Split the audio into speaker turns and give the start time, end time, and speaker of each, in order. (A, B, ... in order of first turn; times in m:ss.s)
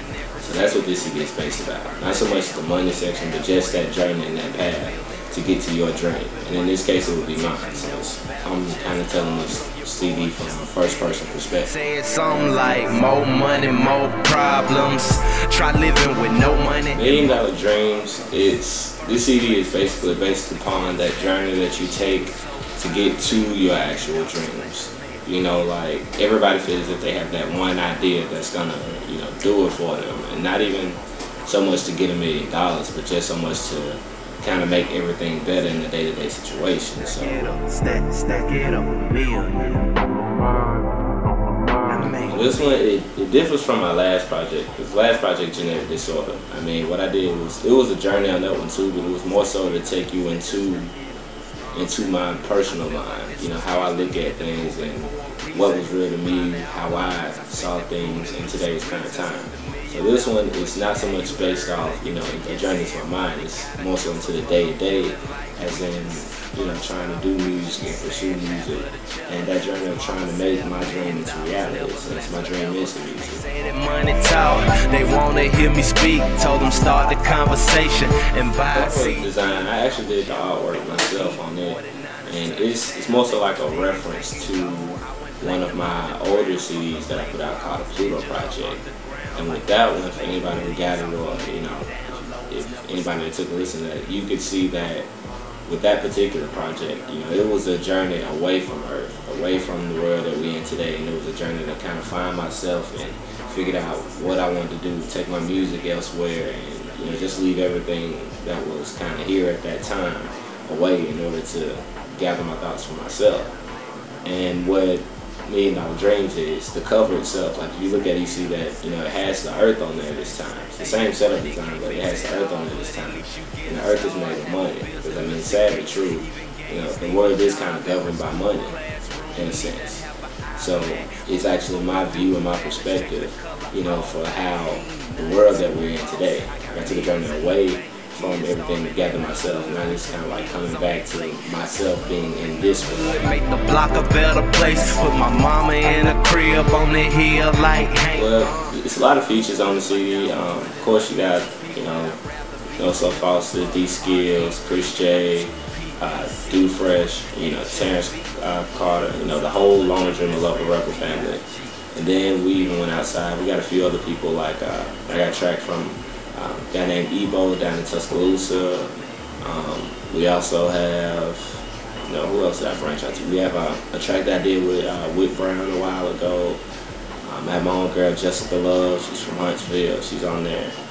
0:00.4-0:11.7 A
0:11.6-0:17.3 B
0:16.9-0:37.5 A
0:37.2-0:39.9 B
0:41.9-0:42.6 B
0:42.3-0:50.9 A
0:51.7-1:13.4 A
1:13.5-1:19.2 B
1:18.7-1:28.8 A
1:29.3-1:35.1 A
1:35.7-1:53.5 A
1:54.2-2:08.8 A
2:09.3-2:23.2 A
2:22.9-2:28.3 B
2:28.1-2:32.2 A
2:32.8-2:48.9 A
2:49.4-2:56.6 A
2:57.2-3:00.7 A